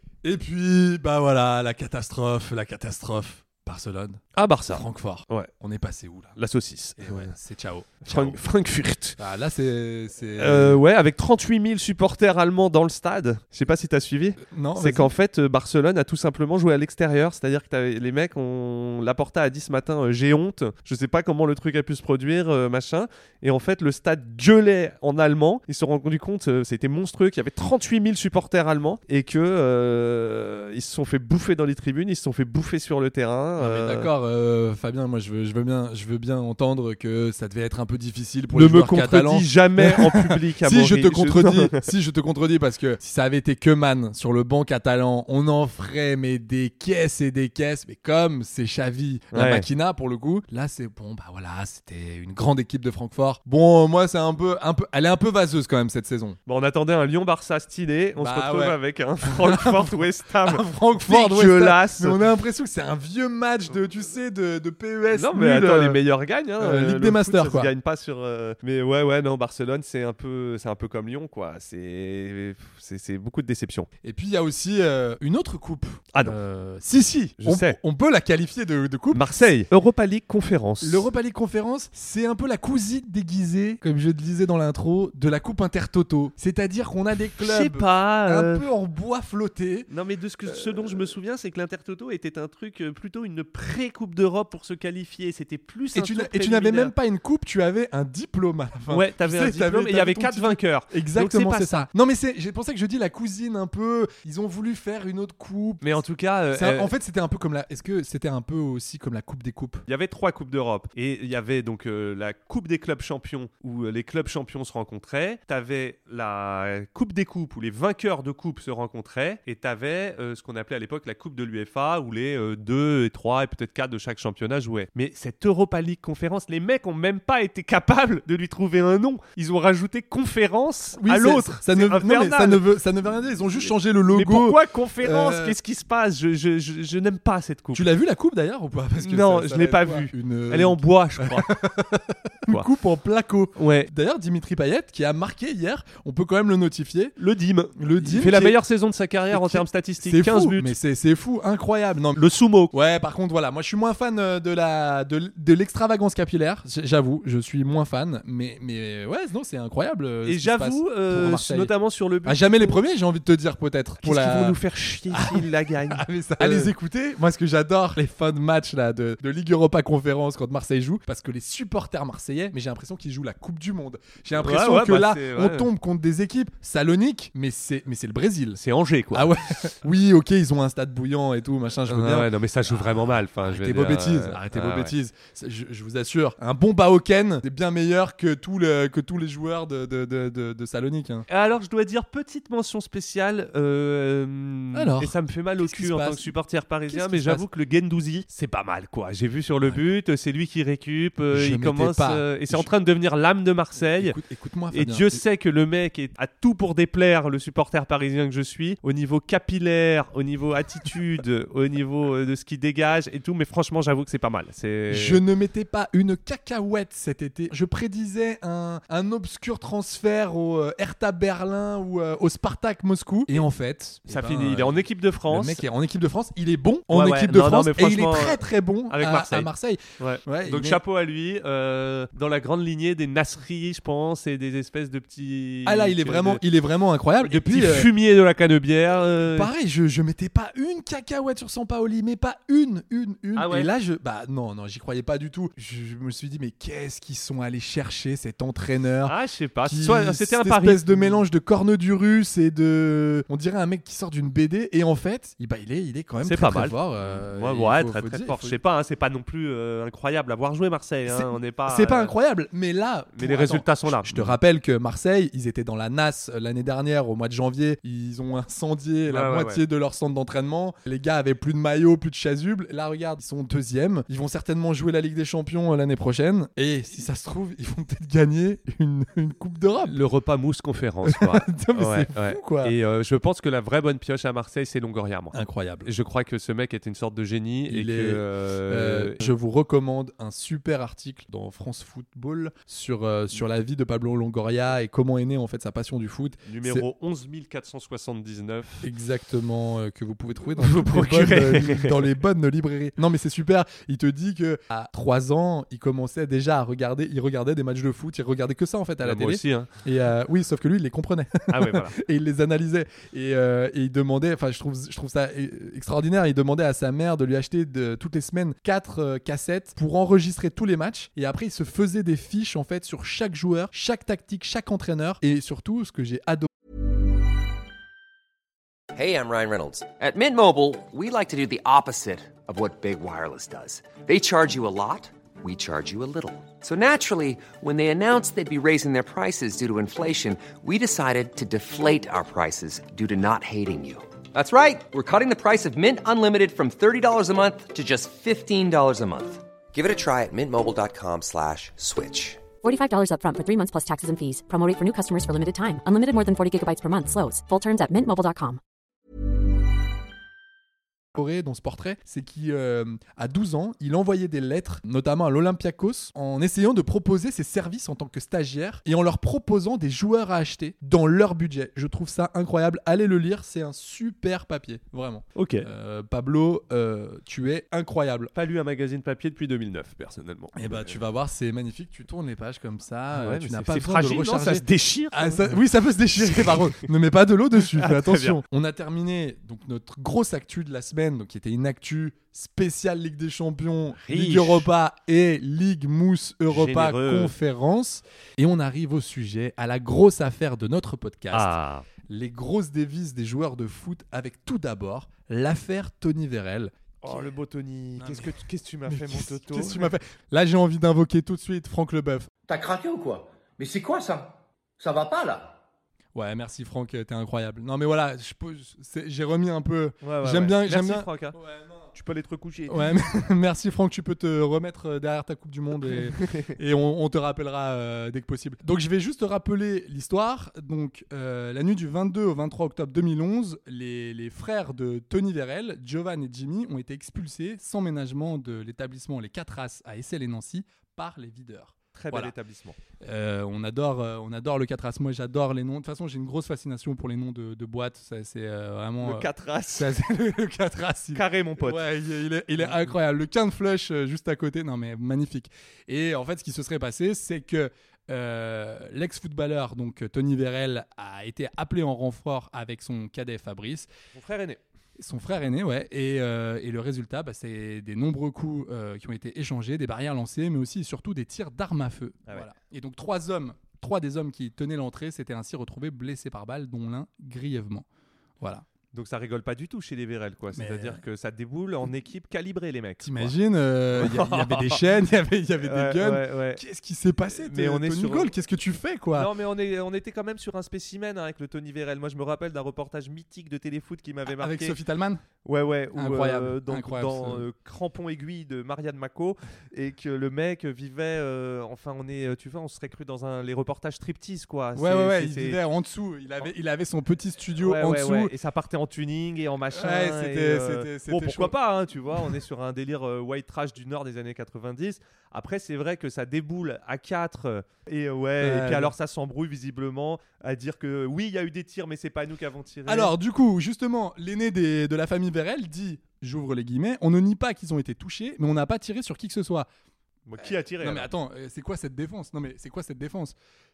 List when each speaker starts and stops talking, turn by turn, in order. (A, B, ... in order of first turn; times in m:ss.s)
0:00.2-0:06.4 A
0:04.4-0:05.5 B
0:06.4-0:07.3 B
0:07.0-0:08.4 A
0:08.0-0:09.2 B
0:09.2-0:10.8 A
0:10.4-0:34.1 B
0:14.4-0:15.1 A
0:33.6-0:56.4 A
0:38.5-0:41.9 B
0:49.3-0:49.7 B
0:56.5-1:02.2 B
0:58.2-1:06.0 A
1:05.1-1:13.9 B
1:06.6-1:07.7 A
1:14.0-1:19.2 A
1:17.4-1:17.8 B
1:19.1-1:21.1 B
1:20.8-1:29.9 A
1:27.4-1:28.7 B
1:29.9-1:36.9 B
1:30.5-1:31.1 A
1:35.9-1:49.8 A
1:38.9-1:41.9 B
1:45.8-1:46.9 B
1:49.9-2:12.6 B
2:11.0-2:15.6 A
2:13.5-2:17.9 B
2:17.7-2:27.2 A
2:19.0-2:21.6 B
2:23.6-2:23.9 B
2:27.2-2:30.8 B
2:27.8-2:28.6 A
2:29.3-2:58.6 A
2:32.2-2:32.7 B
2:40.2-2:42.8 B
2:44.0-2:46.7 B
2:54.4-2:55.7 B
2:58.6-2:59.4 B
2:59.1-3:11.3 A
3:01.9-3:04.9 B
3:11.3-3:24.2 B
3:14.7-3:16.4 A
3:16.9-3:17.5 A
3:21.3-3:22.7 A
3:24.0-3:25.2 A
3:24.7-3:35.2 B
3:34.9-3:50.8 A
3:44.1-3:45.6 B
3:46.9-3:56.4 B
3:55.6-3:57.9 A
3:57.2-3:59.5 B
3:59.2-4:18.6 A
4:03.4-4:03.7 B
4:09.1-4:11.2 B
4:16.2-4:22.2 B
4:21.1-4:40.0 A
4:23.2-4:24.4 B
4:29.1-4:29.6 B
4:39.8-4:49.3 B
4:41.0-4:42.8 A
4:45.3-4:45.9 A
4:47.7-4:56.9 A
4:56.4-4:58.9 B
4:58.8-5:26.5 A
5:00.6-5:02.1 B
5:09.0-5:09.7 B
5:11.5-5:12.0 B
5:28.9-5:52.4 C
5:52.6-5:58.6 D
6:01.1-6:18.3 A
6:15.4-6:15.7 B
6:18.3-6:21.0 B
6:20.5-6:47.4 A
6:23.1-6:25.6 B
6:26.2-6:26.9 B
6:27.6-6:28.4 B
6:33.9-6:34.7 B
6:36.5-6:37.4 B
6:41.3-6:41.9 B
6:47.0-6:49.9 B
6:48.0-6:52.3 A
6:52.5-6:55.6 E
6:56.2-7:01.9 A
7:00.0-7:01.4 B
7:01.9-7:03.0 B
7:02.7-7:22.3 A
7:05.8-7:06.6 B
7:21.9-7:22.8 B
7:23.0-7:43.9 A
7:29.0-7:29.9 B
7:31.1-7:31.8 B
7:32.6-7:32.9 B
7:44.1-7:44.6 B
7:45.0-7:57.9 A
7:58.4-7:58.6 A
7:58.9-8:03.4 B
8:00.5-8:01.0 A
8:03.0-8:09.3 A
8:03.9-8:04.8 B
8:05.6-8:06.6 B
8:07.3-8:08.3 B
8:09.1-8:14.8 B
8:14.3-8:15.2 A
8:15.4-8:25.6 B
8:15.9-8:17.4 A
8:24.8-8:28.3 A
8:27.6-8:43.1 B
8:29.7-8:31.6 A
8:38.4-8:38.9 A
8:42.9-8:49.7 A
8:50.3-8:51.1 B
8:50.4-8:53.4 A